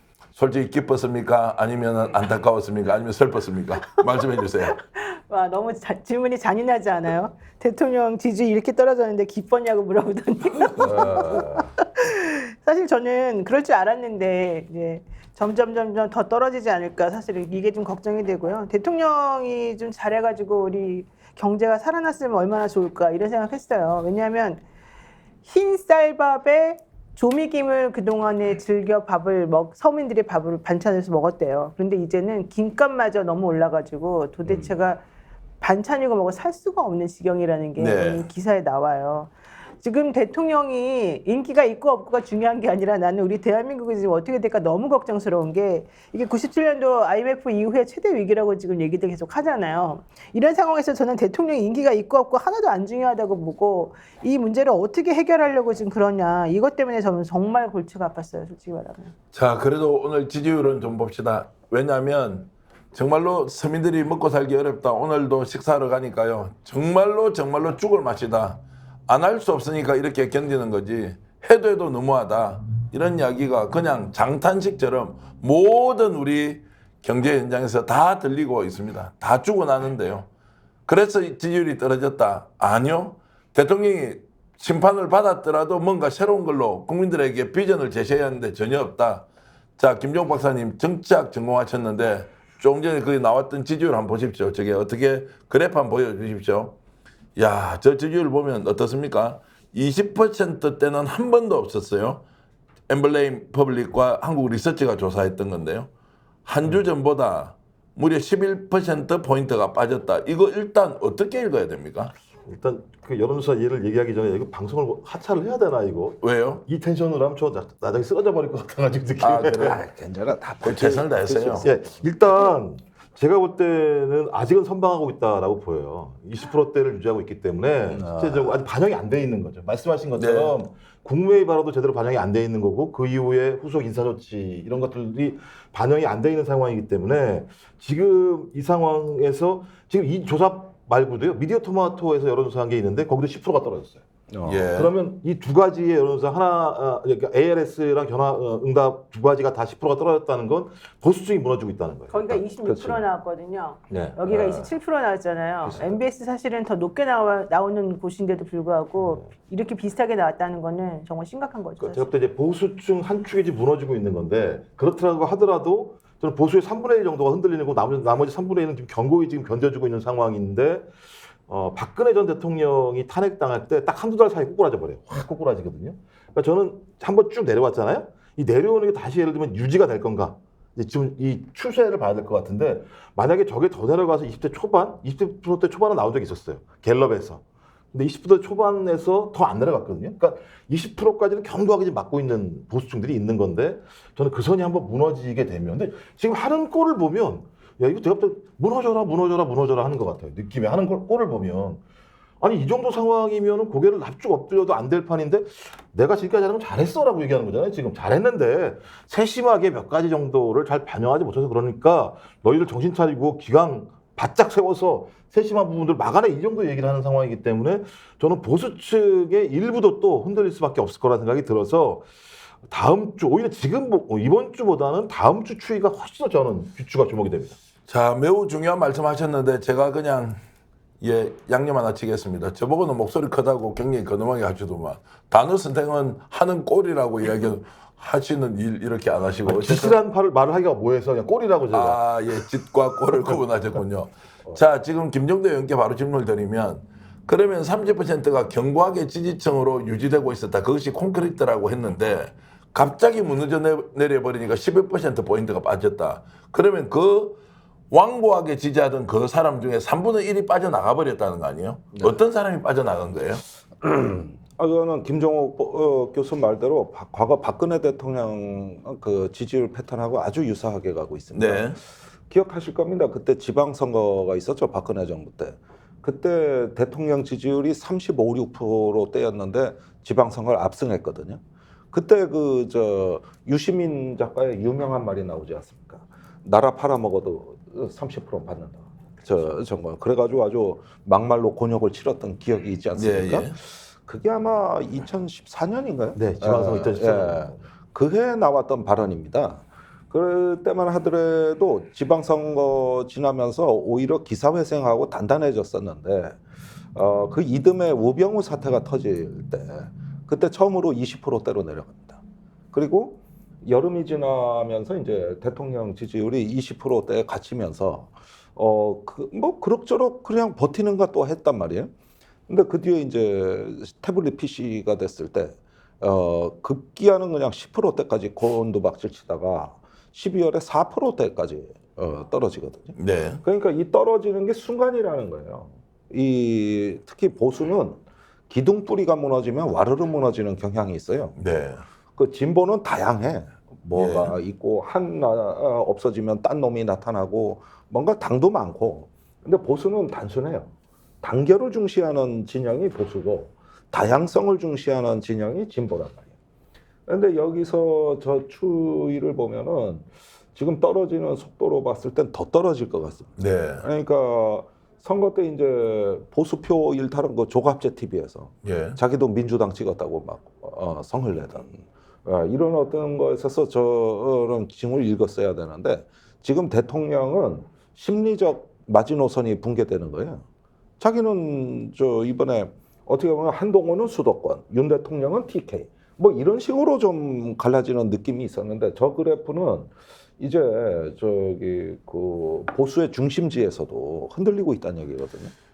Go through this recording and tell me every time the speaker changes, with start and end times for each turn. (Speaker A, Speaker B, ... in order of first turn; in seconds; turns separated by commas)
Speaker A: 0.3-4.8, Speaker B: 4.7-24.6, Speaker C: 10.8-11.7, Speaker B: 25.4-35.0, Speaker B: 35.6-59.1, Speaker A: 37.8-38.3, Speaker A: 59.3-80.3, Speaker A: 80.9-89.3, Speaker A: 89.8-96.8, Speaker A: 97.4-102.2, Speaker A: 102.9-105.9, Speaker A: 106.5-112.1, Speaker D: 112.5-119.8, Speaker A: 116.2-116.6, Speaker A: 119.2-119.8, Speaker C: 119.5-121.9, Speaker A: 120.6-121.7, Speaker D: 121.6-144.0, Speaker C: 127.9-128.6, Speaker A: 130.2-130.6, Speaker C: 144.3-144.7, Speaker A: 144.4-144.9, Speaker D: 144.7-152.4, Speaker B: 152.1-162.1, Speaker C: 152.3-153.0, Speaker D: 153.9-154.7, Speaker D: 155.7-156.0, Speaker D: 159.0-159.2, Speaker D: 161.8-170.9, Speaker D: 171.5-201.8, Speaker D: 202.4-222.1, Speaker D: 222.7-227.6, Speaker A: 227.9-230.4, Speaker A: 231.0-240.0, Speaker D: 239.4-242.1, Speaker A: 241.7-257.4, Speaker A: 257.9-263.4, Speaker C: 263.8-281.4, Speaker A: 271.3-271.8, Speaker C: 281.9-306.4, Speaker A: 292.9-293.6, Speaker D: 296.2-297.6, Speaker C: 306.9-312.2, Speaker C: 312.7-321.9, Speaker C: 322.5-341.4, Speaker A: 333.0-333.4, Speaker A: 341.4-341.8, Speaker C: 342.1-350.7, Speaker A: 343.9-344.4, Speaker C: 351.2-356.3, Speaker C: 357.1-380.4, Speaker A: 363.4-363.9, Speaker A: 368.6-369.0, Speaker C: 381.0-395.5